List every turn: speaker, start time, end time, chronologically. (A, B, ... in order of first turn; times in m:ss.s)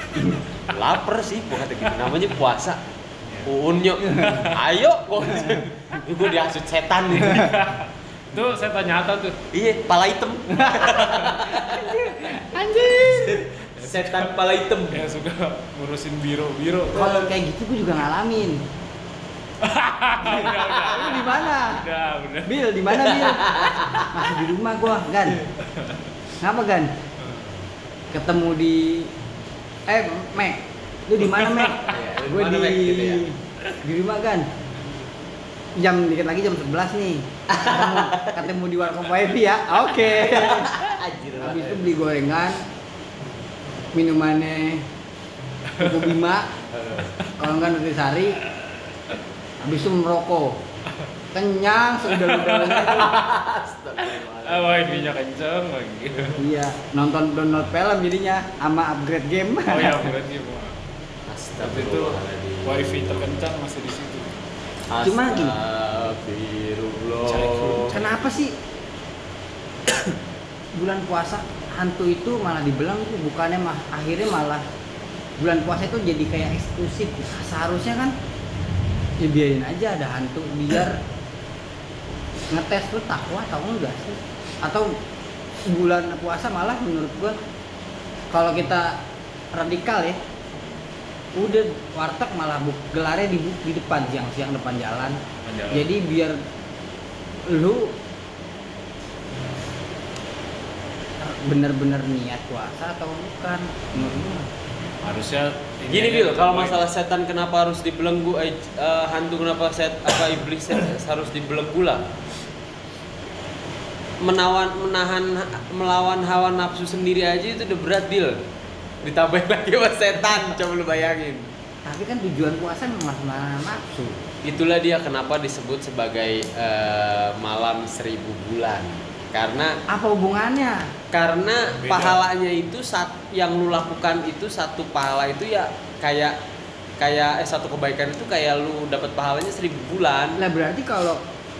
0:00.1-0:00.5 A
0:00.6-0:02.8 B
0:03.4-0:07.6 B
0:04.0-0:04.5 A
0:04.2-0:04.5 C
0:07.1-0:09.4 C
0:09.5-0:12.0 B
0:10.5-0:13.4 A
0:13.0-0:15.1 B
0:13.8-0:14.4 C
0:14.9-0:17.3 C
0:16.9-0:18.6 A
0:19.6-0:22.6 C
0:20.2-0:21.8 A
0:22.4-0:25.4 A
0:23.2-0:24.1 B
0:25.4-0:26.1 C
0:26.4-0:26.9 A
0:27.2-0:27.6 C
0:28.1-0:29.1 A
0:29.9-0:34.5 A
0:31.2-0:32.0 C
0:31.9-0:33.2 B
0:35.8-0:42.6 A
0:37.5-0:38.5 B
0:40.1-0:42.0 B
0:43.9-0:44.9 A
0:45.7-0:46.1 C
0:45.8-0:46.5 A
0:46.7-0:47.1 B
0:47.4-0:48.4 A
0:48.4-0:49.2 C
0:49.6-0:50.6 A
0:51.3-0:53.2 A
0:52.1-0:53.2 C
0:52.7-0:55.0 B
0:54.0-0:56.4 C
0:56.4-1:00.1 A
0:59.7-1:00.8 C
1:01.3-1:03.3 B
1:01.6-1:04.3 C
1:04.9-1:07.9 B
1:05.0-1:05.6 A
1:07.2-1:08.1 C
1:07.9-1:08.6 A
1:10.7-1:14.6 A
1:15.4-1:18.1 A
1:19.2-1:21.0 A
1:22.5-1:25.0 A
1:25.6-1:27.4 A
1:28.3-1:30.2 A
1:31.3-1:35.2 A
1:35.4-1:35.9 C
1:35.7-1:36.4 A
1:37.5-1:38.0 A
1:41.2-1:44.5 A
1:43.9-1:44.2 C
1:45.0-1:46.8 C
1:45.9-1:52.0 B
1:54.2-1:58.4 B
1:59.0-2:01.5 B
2:01.8-2:04.2 A
2:04.4-2:09.8 B
2:09.9-2:10.9 A
2:11.1-2:16.4 B
2:11.8-2:12.2 C
2:17.0-2:20.4 B
2:20.4-2:21.2 A